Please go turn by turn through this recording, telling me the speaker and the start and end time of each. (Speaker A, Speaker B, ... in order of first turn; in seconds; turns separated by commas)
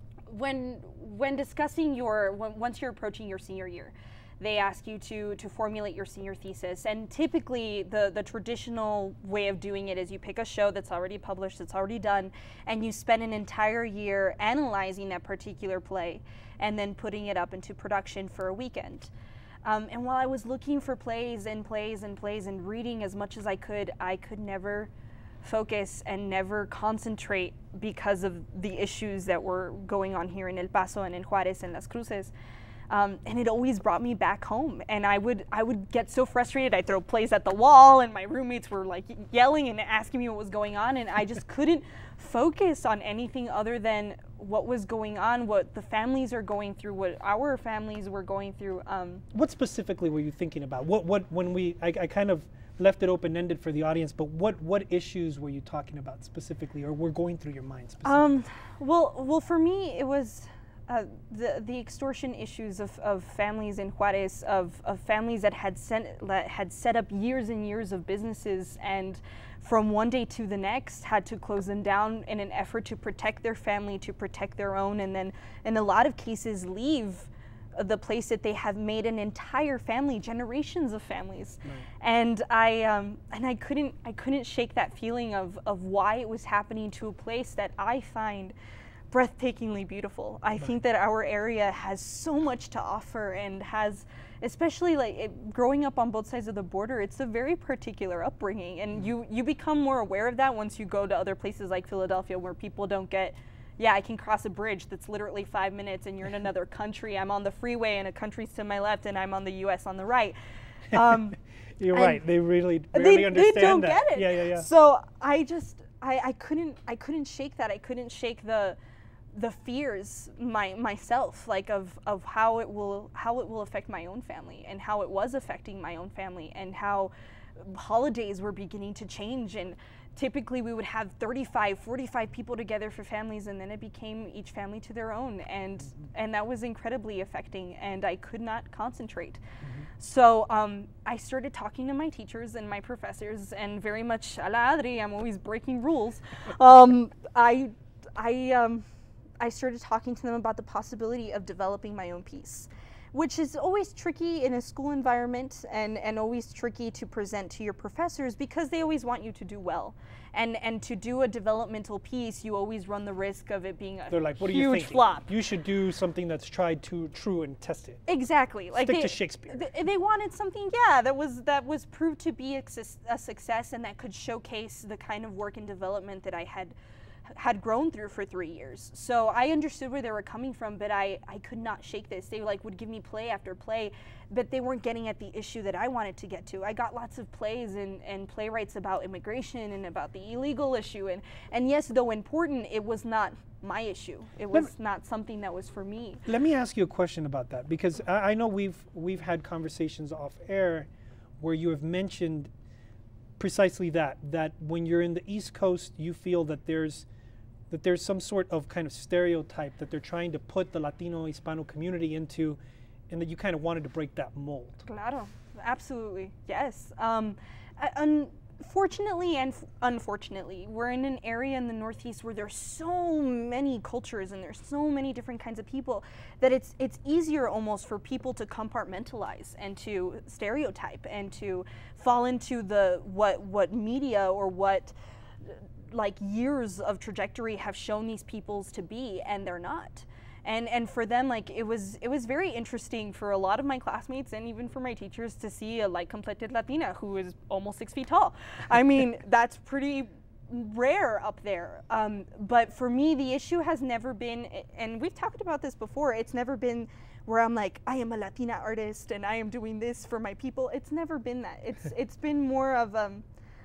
Speaker A: 0.3-19.1, Speaker A: 19.6-24.9, Speaker A: 25.4-32.3, Speaker A: 32.9-49.2, Speaker B: 49.3-58.4, Speaker A: 58.0-88.5, Speaker A: 89.1-110.3, Speaker A: 110.9-111.4, Speaker B: 110.9-114.7, Speaker A: 111.9-112.2, Speaker A: 112.9-118.8, Speaker A: 119.3-139.4, Speaker A: 140.0-148.8, Speaker A: 149.4-165.3, Speaker B: 164.1-168.0, Speaker A: 168.1-176.7, Speaker B: 168.7-169.7, Speaker A: 177.3-196.2, Speaker B: 196.2-202.5, Speaker B: 203.4-207.1, Speaker B: 207.7-214.8, Speaker A: 214.8-234.9, Speaker A: 235.4-263.2